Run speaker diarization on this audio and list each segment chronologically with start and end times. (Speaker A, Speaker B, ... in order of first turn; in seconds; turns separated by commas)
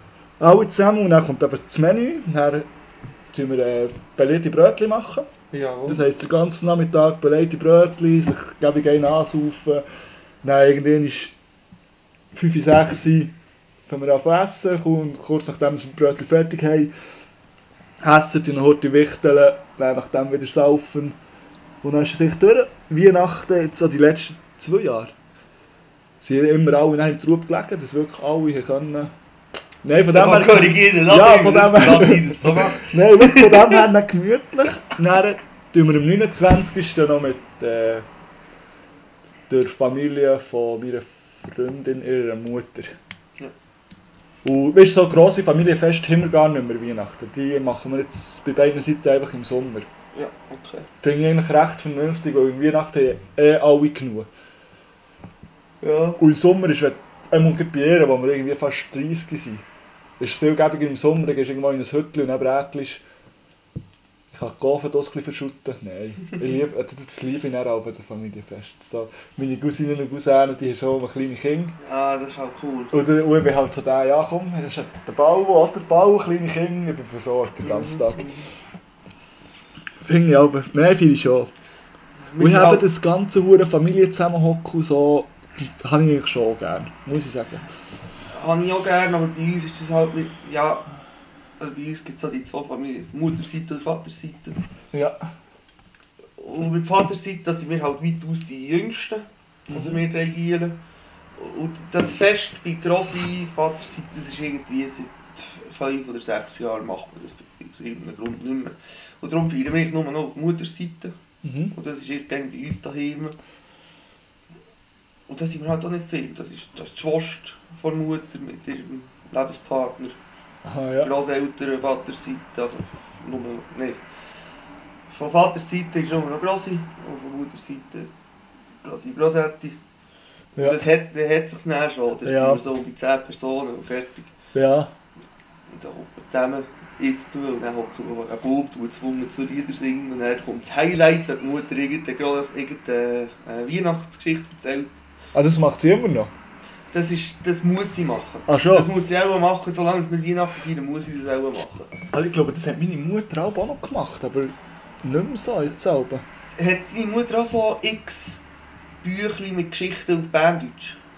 Speaker A: 0.4-2.7, Speaker A: 3.3-5.3, Speaker B: 5.5-6.0, Speaker A: 5.8-9.8, Speaker A: 10.4-11.3, Speaker A: 12.3-13.3, Speaker A: 13.8-16.9, Speaker A: 18.0-21.2, Speaker A: 21.8-25.1, Speaker A: 26.2-29.1, Speaker A: 29.8-38.1, Speaker B: 30.1-33.9, Speaker A: 39.5-43.0, Speaker A: 44.4-49.9, Speaker B: 50.1-50.9, Speaker A: 51.0-54.3, Speaker B: 55.8-56.2, Speaker A: 56.2-59.6, Speaker A: 60.2-63.0, Speaker A: 64.3-71.8, Speaker B: 71.8-72.9, Speaker A: 72.9-78.3, Speaker B: 77.6-78.5, Speaker A: 80.0-81.5, Speaker B: 82.3-82.9, Speaker A: 82.4-87.6, Speaker B: 88.3-90.8, Speaker B: 91.6-94.6, Speaker A: 94.9-95.2, Speaker B: 96.4-100.8, Speaker A: 99.7-100.0, Speaker B: 101.3-111.1, Speaker A: 111.4-111.7, Speaker B: 111.7-113.4, Speaker B: 115.3-120.2, Speaker A: 120.6-121.1, Speaker B: 121.0-124.0, Speaker B: 125.1-128.1, Speaker B: 128.8-129.8, Speaker A: 130.6-130.8, Speaker B: 130.6-134.3, Speaker A: 132.2-132.6, Speaker A: 134.5-134.9, Speaker B: 135.7-144.9, Speaker A: 145.3-146.3, Speaker B: 146.9-151.9, Speaker A: 148.5-148.9, Speaker A: 152.1-156.2, Speaker B: 156.6-158.4, Speaker B: 159.0-161.0